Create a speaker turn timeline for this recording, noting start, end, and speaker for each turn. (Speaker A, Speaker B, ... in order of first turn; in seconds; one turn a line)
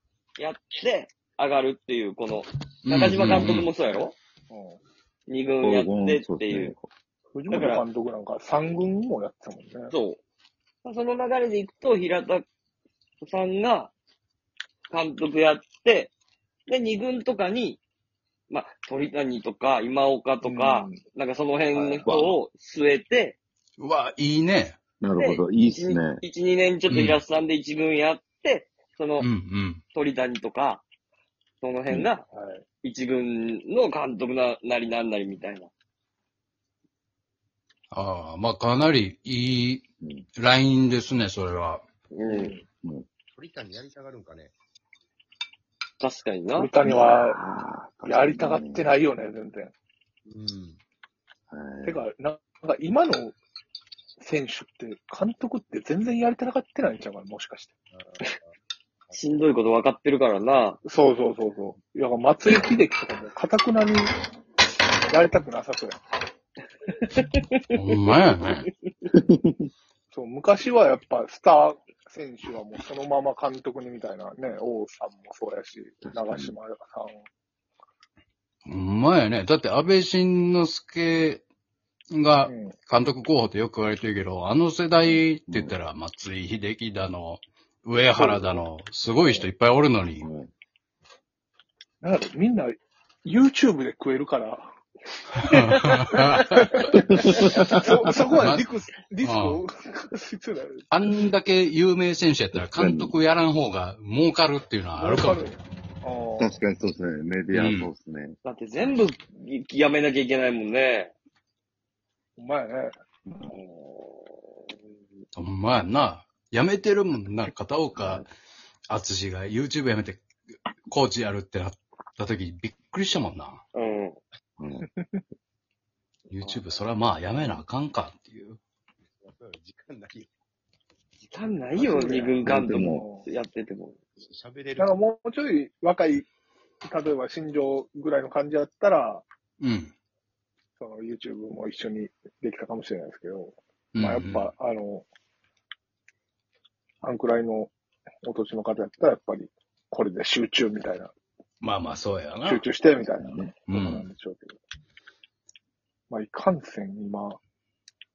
Speaker A: 0.4-4.2
Speaker B: 2.9-3.7
Speaker C: 4.5-4.8
Speaker A: 5.3-6.7
Speaker D: 5.6-6.9
Speaker C: 7.3-9.9
Speaker A: 7.5-7.8
Speaker A: 9.9-10.2
Speaker A: 10.8-12.5
Speaker A: 13.2-13.9
Speaker A: 14.9-16.1
Speaker A: 16.7-17.8
Speaker A: 18.5-23.4
Speaker C: 20.4-21.0
Speaker D: 21.7-22.4
Speaker B: 23.8-24.8
Speaker D: 25.0-26.2
Speaker A: 25.2-29.3
Speaker B: 26.9-27.2
Speaker B: 29.2-29.8
Speaker A: 29.9-30.9
Speaker A: 31.6-32.2
Speaker C: 32.3-32.6
Speaker A: 32.8-35.7
Speaker B: 37.9-39.8
Speaker D: 40.0-40.3
Speaker B: 40.4-41.8
Speaker A: 42.1-42.6
Speaker C: 42.3-42.6
Speaker E: 43.3-44.5
Speaker A: 46.0-46.7
Speaker C: 46.6-47.4
Speaker D: 46.8-48.9
Speaker C: 48.1-49.7
Speaker E: 50.3-50.8
Speaker D: 51.5-52.0
Speaker C: 51.8-53.4
Speaker C: 54.2-57.7
Speaker E: 57.9-58.5
Speaker A: 59.1-60.8
Speaker C: 60.9-64.2
Speaker C: 65.1-66.0
Speaker A: 67.1-67.6
Speaker B: 67.7-68.7
Speaker D: 69.1-69.7
Speaker C: 70.1-77.2
Speaker D: 76.0-76.5
Speaker B: 78.7-81.4
Speaker B: 82.1-90.3
Speaker C: 82.5-82.8
Speaker D: 85.5-85.8
Speaker C: 88.1-88.6
Speaker D: 90.2-90.5
Speaker C: 92.0-94.8
Speaker B: 95.4-96.9
Speaker C: 95.5-101.3
Speaker D: 96.9-98.2
Speaker B: 98.2-99.6
Speaker B: 100.9-105.5
Speaker D: 102.7-103.2
Speaker C: 105.0-106.6
Speaker D: 106.4-108.4
Speaker B: 107.5-107.9
Speaker A: 108.4-111.1
Speaker C: 112.4-112.9
Speaker A: 113.5-114.8
Speaker B: 115.3-118.3
Speaker D: 118.0-118.2
Speaker B: 118.9-120.2
Speaker B: 120.8-123.6
Speaker A: 123.7-124.2
Speaker D: 124.6-124.9
Speaker C: 124.8-125.2
Speaker B: 126.3-128.6
Speaker E: 129.2-130.3
Speaker A: 131.2-134.0
Speaker C: 131.8-133.3
Speaker D: 132.4-133.1
Speaker E: 134.2-135.0
Speaker C: 134.8-136.3
Speaker C: 136.8-139.2
Speaker B: 139.6-139.9
Speaker C: 140.8-145.1
Speaker B: 143.9-144.5
Speaker C: 147.0-147.7
Speaker C: 148.2-151.1
Speaker B: 151.6-152.7
Speaker C: 152.4-154.6
Speaker D: 153.2-153.5
Speaker B: 153.7-154.1
Speaker C: 156.1-157.4